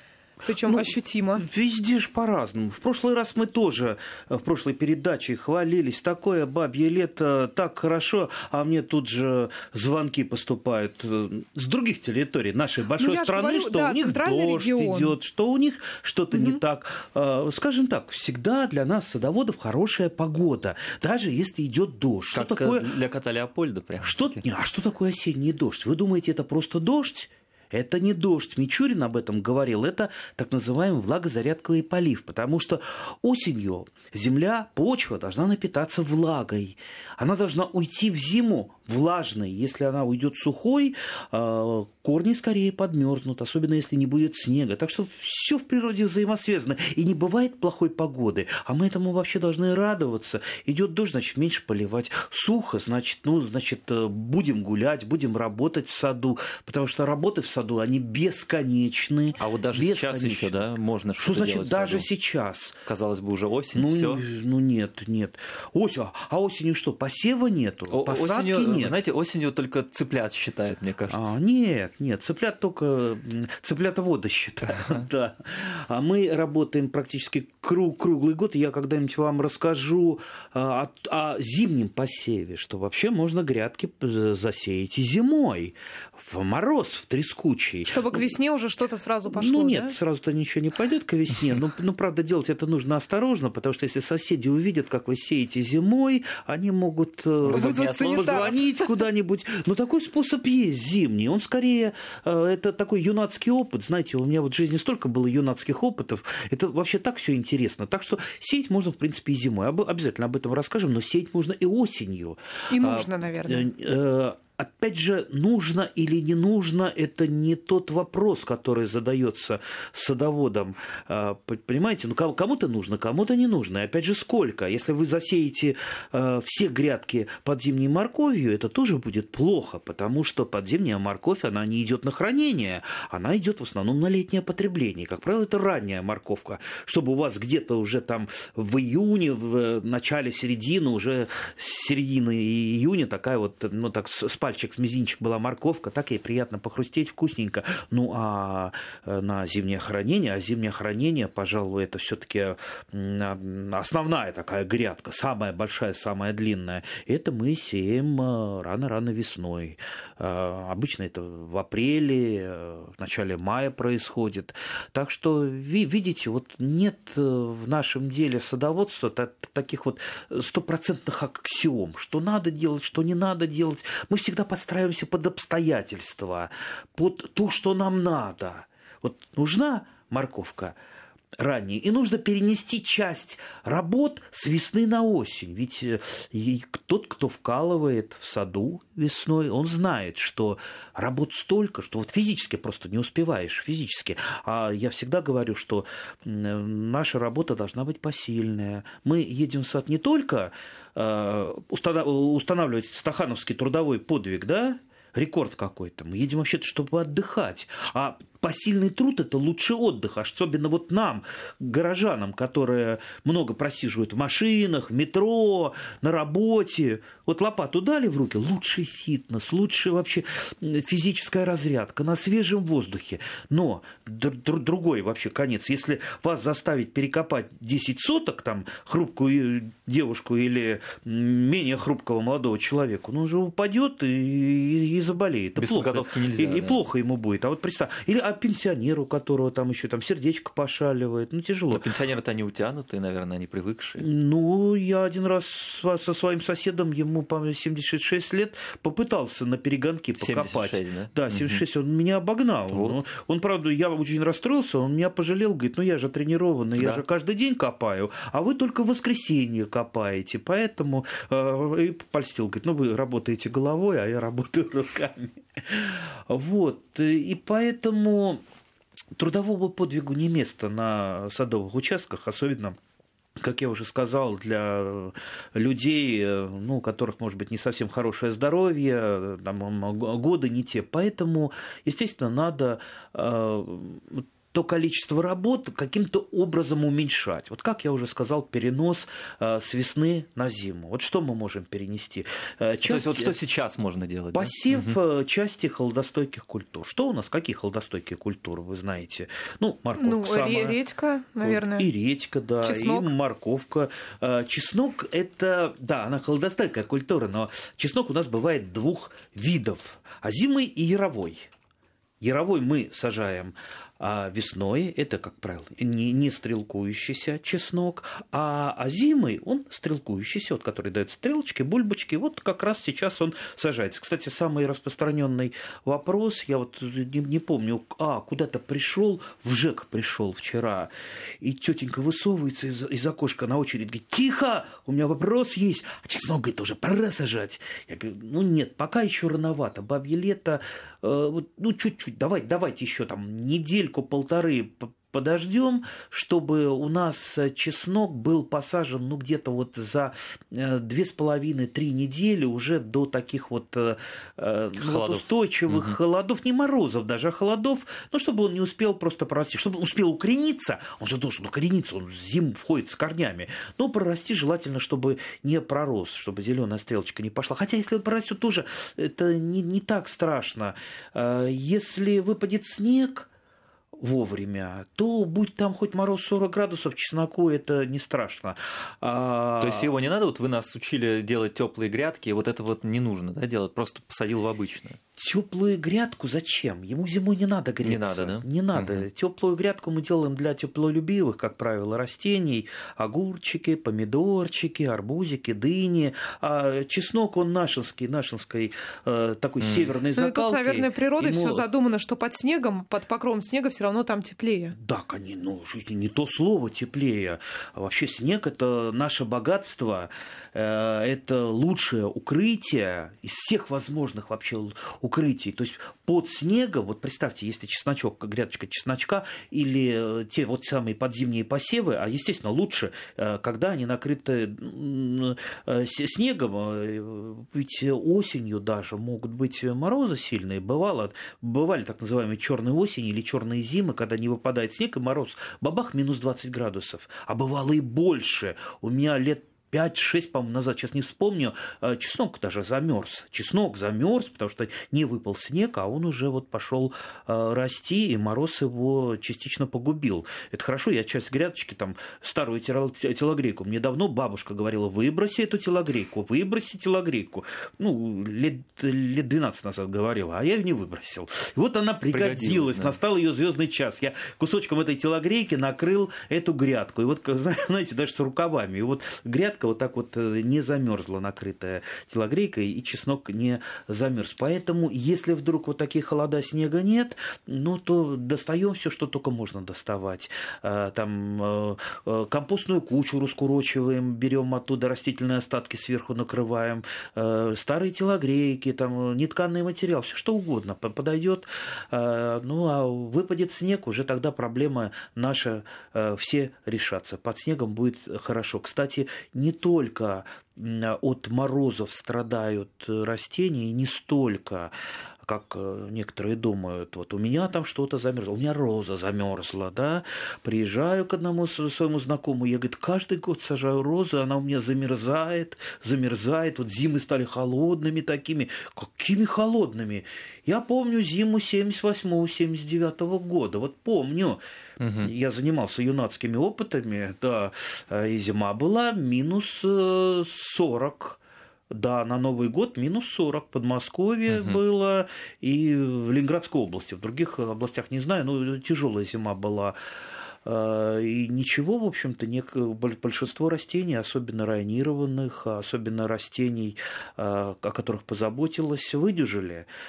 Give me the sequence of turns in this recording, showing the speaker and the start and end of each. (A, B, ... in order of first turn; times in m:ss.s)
0:00.4-0:01.4 A
0:00.6-0:22.9 B
0:13.0-0:15.2 A
0:16.3-0:16.6 A
0:22.3-0:24.4 C
0:24.0-1:00.6 B
0:59.4-1:02.1 C
1:01.2-1:02.8 B
1:02.8-1:04.2 C
1:03.7-1:08.9 B
1:07.9-1:11.3 C
1:11.1-1:28.3 B
1:27.8-1:29.9 A
1:29.2-3:00.8 B
1:37.4-1:38.6 C
1:37.5-1:38.9 A
1:52.7-1:53.7 A
3:01.4-4:01.9 B
3:55.6-3:56.8 C
4:01.7-4:04.0 C
4:04.0-4:28.4 B
4:10.2-4:11.6 C
4:12.7-4:13.0 C
4:16.8-4:17.0 C
4:29.2-4:32.8 B
4:33.4-4:53.4 B
4:52.8-4:55.0 C
4:54.3-5:00.8 B
5:00.0-5:01.9 A
5:01.4-5:11.5 B
5:02.6-5:03.1 A
5:12.2-6:13.3 B
5:54.8-5:56.0 C
6:14.0-6:19.9 B
6:19.6-6:25.0 C
6:25.2-6:41.6 B
6:27.8-6:29.1 C
6:39.6-6:39.9 C
6:40.1-6:44.8 A
6:44.8-8:44.4 B
7:42.1-7:43.0 C
8:44.8-8:45.1 C
8:45.0-8:51.2 B
8:51.7-8:59.8 B
8:54.3-8:54.6 C
9:00.4-9:09.7 B